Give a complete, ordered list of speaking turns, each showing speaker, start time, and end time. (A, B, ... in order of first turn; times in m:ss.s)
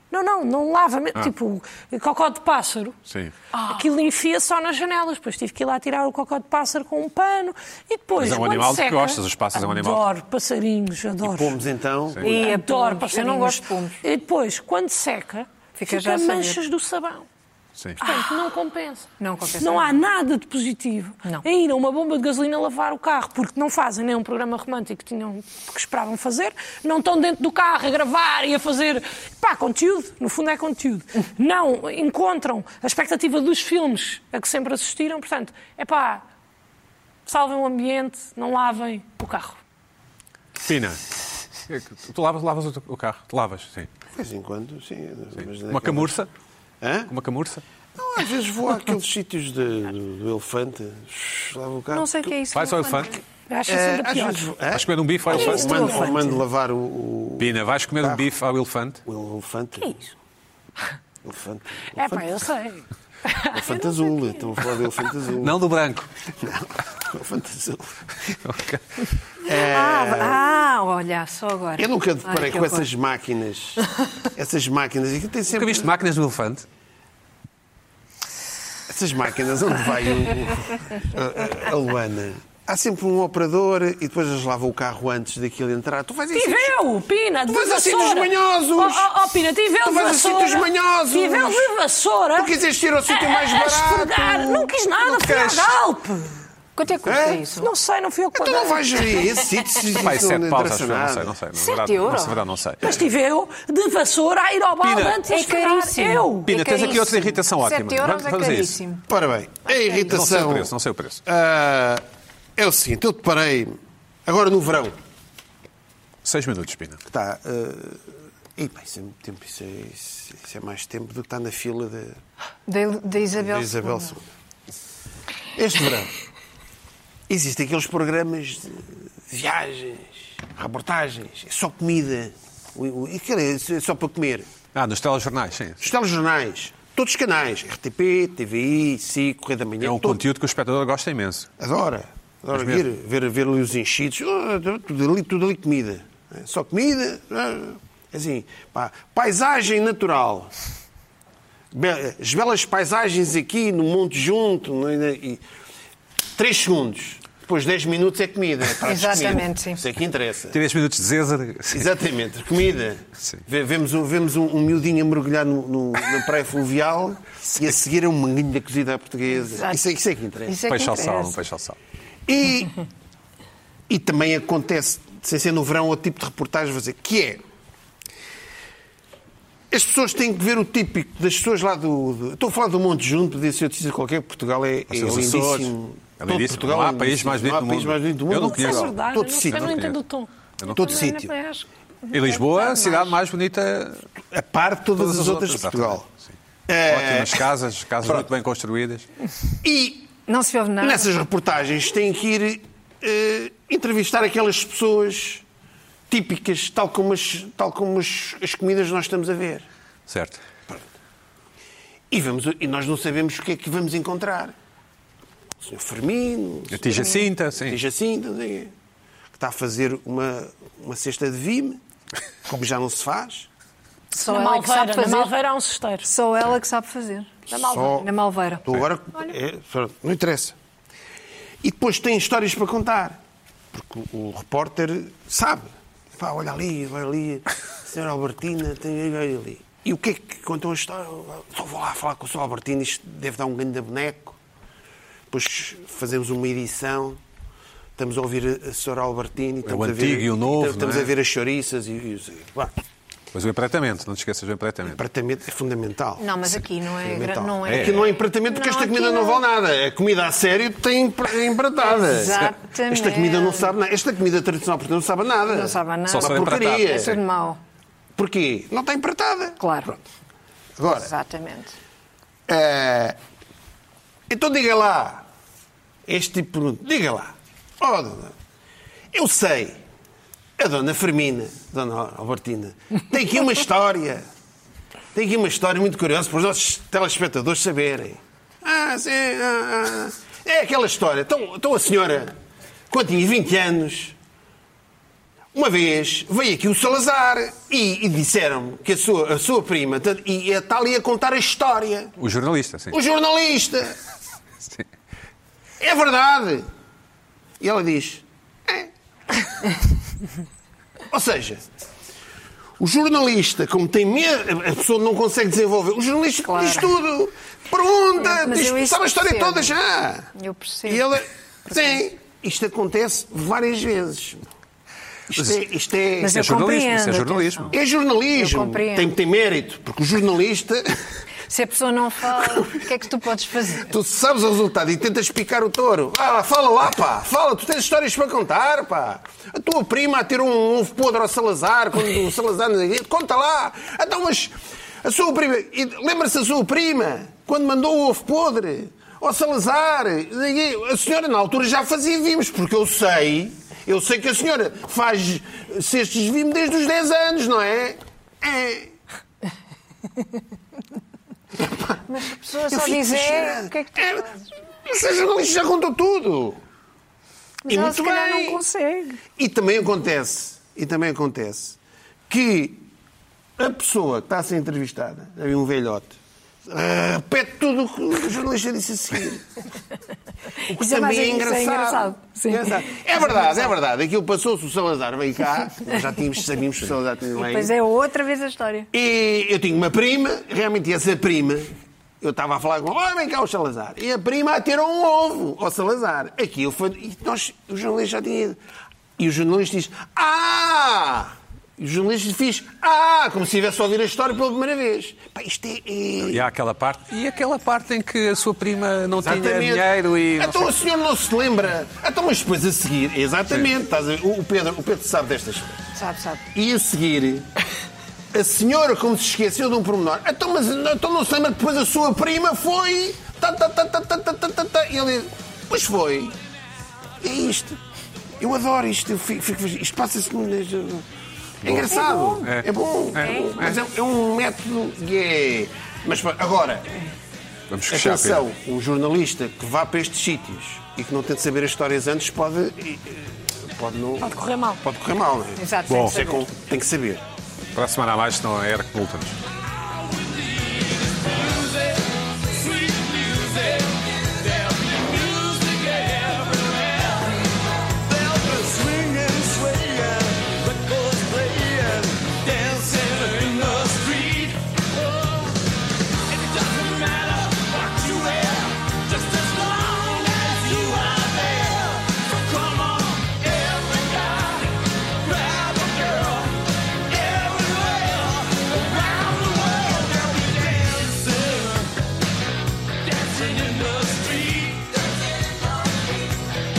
0:00.1-0:03.0 A
0:03.1-0:03.3 B
0:03.5-0:03.8 C
0:03.6-0:11.6 A
0:08.2-0:10.0 B
0:11.2-0:12.4 D
0:12.2-0:14.0 C
0:12.2-0:17.2 A
0:15.8-0:16.6 C
0:17.8-0:18.0 B
0:18.0-0:36.2 A
0:19.2-0:20.0 C
0:37.2-0:39.6 A
0:40.6-0:41.0 B
0:41.7-0:43.9 B
0:44.1-0:46.1 D
0:45.4-0:46.3 B
0:46.8-0:47.1 D
0:47.1-0:47.6 B
0:48.0-0:52.2 D
0:51.9-0:53.2 C
0:52.5-0:53.2 B
0:53.5-0:54.5 A
0:53.7-0:58.2 D
0:54.7-0:56.1 B
0:55.3-0:56.4 C
0:55.4-0:56.2 A
0:57.4-0:59.0 B
0:59.0-1:00.0 D
1:01.2-1:02.3 D
1:02.0-1:03.9 A
1:03.4-1:05.6 D
1:05.4-1:06.1 B
1:06.4-1:08.4 D
1:08.4-1:09.0 B
1:09.4-1:10.4 D
1:09.5-1:12.9 C
1:11.8-1:15.9 D
1:15.5-1:16.6 B
1:18.9-1:26.7 D
1:26.3-1:32.6 A
1:27.5-1:29.1 D
1:29.8-1:31.7 D
1:32.3-1:35.7 D
1:33.1-1:36.3 A
1:36.8-1:37.7 C
1:37.0-1:37.4 D
1:37.6-1:39.3 A
1:38.3-1:41.3 D
1:39.9-1:42.9 B
1:41.5-1:42.4 C
1:42.8-1:46.5 A
1:44.8-1:45.3 B
1:45.2-1:49.0 C
1:46.4-1:48.8 B
1:49.1-1:50.7 D
1:50.0-1:51.2 B
1:51.2-1:52.0 D
1:52.6-1:54.9 D
1:56.2-1:57.0 B
1:57.1-1:58.0 D
1:58.6-2:02.2 D
2:02.7-2:04.2 C
2:03.4-2:04.2 D
2:05.6-2:06.1 D
2:07.3-2:14.5 D
2:14.7-2:15.9 B
2:15.8-2:20.2 D
2:19.8-2:21.5 B
2:21.6-2:30.5 D
2:22.5-2:22.8 B
2:31.7-2:35.4 D
2:36.4-2:40.6 D
2:38.8-2:39.8 C
2:40.5-2:41.8 B
2:41.7-2:50.6 D
2:49.3-2:49.8 C
2:50.4-2:51.4 C
2:50.7-2:51.8 B
2:52.3-2:52.7 D
2:53.9-2:57.4 D
2:59.7-3:09.9 D
3:04.9-3:10.0 B
3:08.4-3:10.3 A
3:10.6-3:11.2 B
3:10.7-3:13.2 C
3:10.7-3:11.3 D
3:12.1-3:14.0 B
3:14.3-3:16.0 D
3:15.0-3:16.3 B
3:16.7-3:17.4 D
3:16.8-3:19.0 B
3:19.6-3:20.2 D
3:20.3-3:21.1 C
3:20.8-3:25.4 D
3:26.1-3:29.7 D
3:30.1-3:30.4 B
3:32.1-3:34.5 D
3:35.6-3:38.7 D
3:36.7-3:37.8 B
3:39.3-3:41.8 D
3:42.5-3:43.5 D
3:44.1-3:45.3 C
3:44.1-3:46.1 A
3:46.0-3:48.7 C
3:47.5-3:48.1 A
3:47.6-3:48.0 D
3:48.6-3:50.6 D
3:51.6-3:53.2 D
3:53.7-4:04.4 D
4:05.3-4:07.2 D
4:08.0-4:12.7 D
4:09.6-4:11.1 B
4:13.3-4:15.0 B
4:14.9-4:16.4 D
4:16.2-4:19.4 C
4:17.0-4:27.2 D
4:17.6-4:18.0 B
4:21.8-4:23.7 C
4:25.4-4:27.6 C
4:26.1-4:26.9 B
4:28.2-4:30.0 D
4:29.6-4:30.0 C
4:30.8-4:31.1 D
4:30.9-4:31.8 C
4:32.5-4:33.2 D
4:34.3-4:35.2 D
4:36.0-4:38.3 D
4:39.1-4:39.8 D
4:40.6-4:44.2 D
4:45.1-4:52.3 D
4:52.9-4:54.1 D
4:55.5-5:02.1 D
5:02.2-5:03.0 B
5:02.9-5:03.9 D
5:05.8-5:06.6 D
5:07.6-5:08.9 D
5:11.1-5:11.6 D
5:12.8-5:20.3 D
5:16.4-5:16.9 C
5:18.2-5:19.8 C
5:20.3-5:21.0 C
5:20.9-5:24.5 D
5:25.3-5:26.4 D
5:25.3-5:25.6 B
5:26.2-5:27.7 B
5:26.2-5:27.8 C
5:27.7-5:31.0 D
5:28.3-5:29.1 C
5:31.5-5:33.9 C
5:32.5-5:32.8 D
5:33.8-5:58.9 D
6:02.1-6:04.5 C
6:02.7-6:04.3 D
6:04.8-6:06.6 D
6:07.6-6:09.2 C
6:07.7-6:08.6 D
6:09.4-6:11.8 D
6:12.3-6:12.9 D
6:13.6-6:16.2 D
6:16.7-6:19.5 D
6:20.6-6:27.7 D
6:20.7-6:23.7 C
6:27.3-6:28.9 C
6:28.9-6:31.7 D
6:32.2-6:38.6 D
6:39.2-6:46.4 D
6:46.3-6:50.7 B
6:49.2-6:55.8 D
6:56.0-6:56.4 C
6:56.5-6:57.5 D
6:58.3-7:06.4 D
7:07.2-7:07.8 D
7:08.4-7:11.0 D
7:11.6-7:13.8 B
7:11.6-7:17.0 D
7:11.9-7:12.5 C
7:13.2-7:13.5 C
7:17.7-7:18.4 B
7:17.9-7:27.2 D
7:24.2-7:24.8 A
7:25.6-7:26.5 C
7:25.9-7:26.2 B
7:27.7-7:29.4 B
7:29.7-7:45.6 E
7:46.2-8:02.0 E
8:03.0-8:05.8 E